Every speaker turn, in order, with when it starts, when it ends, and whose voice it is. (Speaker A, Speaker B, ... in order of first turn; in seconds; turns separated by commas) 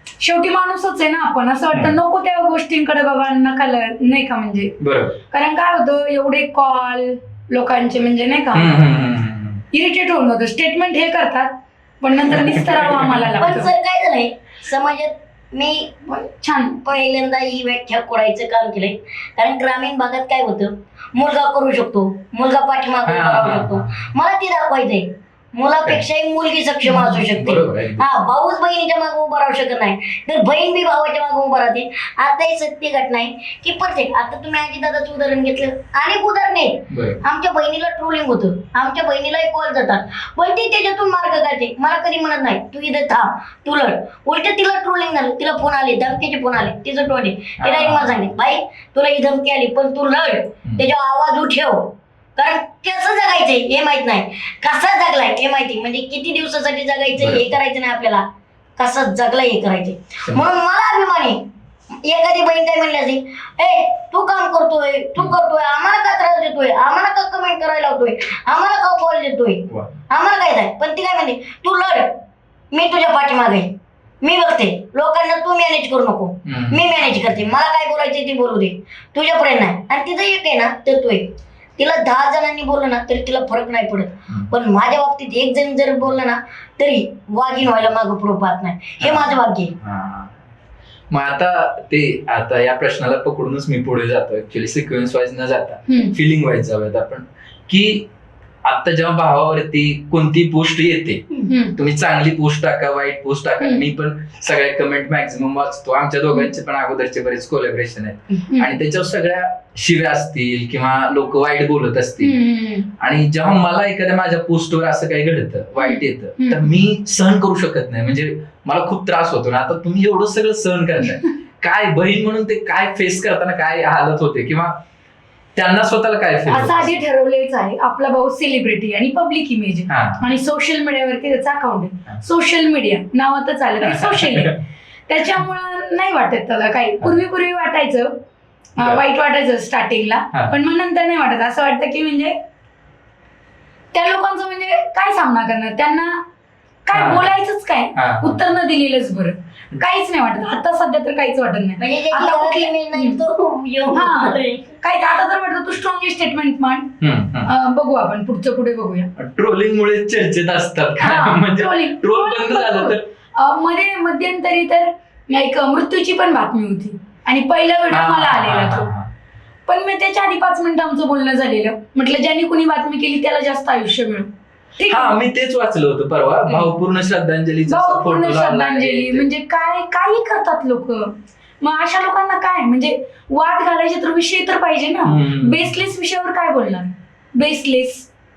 Speaker A: 0.2-4.7, Speaker B: 1.7-2.0, Speaker B: 4.8-5.2, Speaker A: 5.3-8.7, Speaker B: 8.5-9.6, Speaker A: 9.7-13.7, Speaker B: 12.3-13.1, Speaker C: 13.4-15.9, Speaker A: 16.1-16.8, Speaker C: 16.8-58.2, Speaker B: 23.1-24.1, Speaker B: 27.1-28.1, Speaker B: 36.9-37.2, Speaker B: 47.6-48.3, Speaker B: 57.2-57.5, Speaker C: 58.8-61.4, Speaker C: 62.0-72.1, Speaker B: 69.7-70.0, Speaker C: 72.7-73.7, Speaker C: 74.2-89.7, Speaker B: 76.4-77.5, Speaker B: 89.0-90.4, Speaker B: 91.1-98.0, Speaker A: 95.9-96.1, Speaker B: 98.6-112.4, Speaker A: 101.5-101.8, Speaker A: 103.6-103.8, Speaker A: 112.2-112.9, Speaker B: 113.0-124.8, Speaker A: 115.8-116.7, Speaker B: 125.5-127.0, Speaker A: 126.5-138.2, Speaker B: 129.9-130.3, Speaker B: 133.8-134.5, Speaker A: 138.8-142.3, Speaker B: 138.8-139.0, Speaker A: 143.9-146.2, Speaker A: 146.8-153.2, Speaker B: 146.9-147.3, Speaker B: 147.9-148.4, Speaker C: 151.8-154.8, Speaker A: 153.9-156.9, Speaker B: 157.0-157.5, Speaker A: 157.4-159.1, Speaker B: 159.2-163.0, Speaker A: 161.0-168.9, Speaker B: 167.9-169.1, Speaker A: 169.7-175.2, Speaker B: 174.9-179.2, Speaker C: 176.4-176.7, Speaker A: 177.7-188.1, Speaker B: 185.0-185.7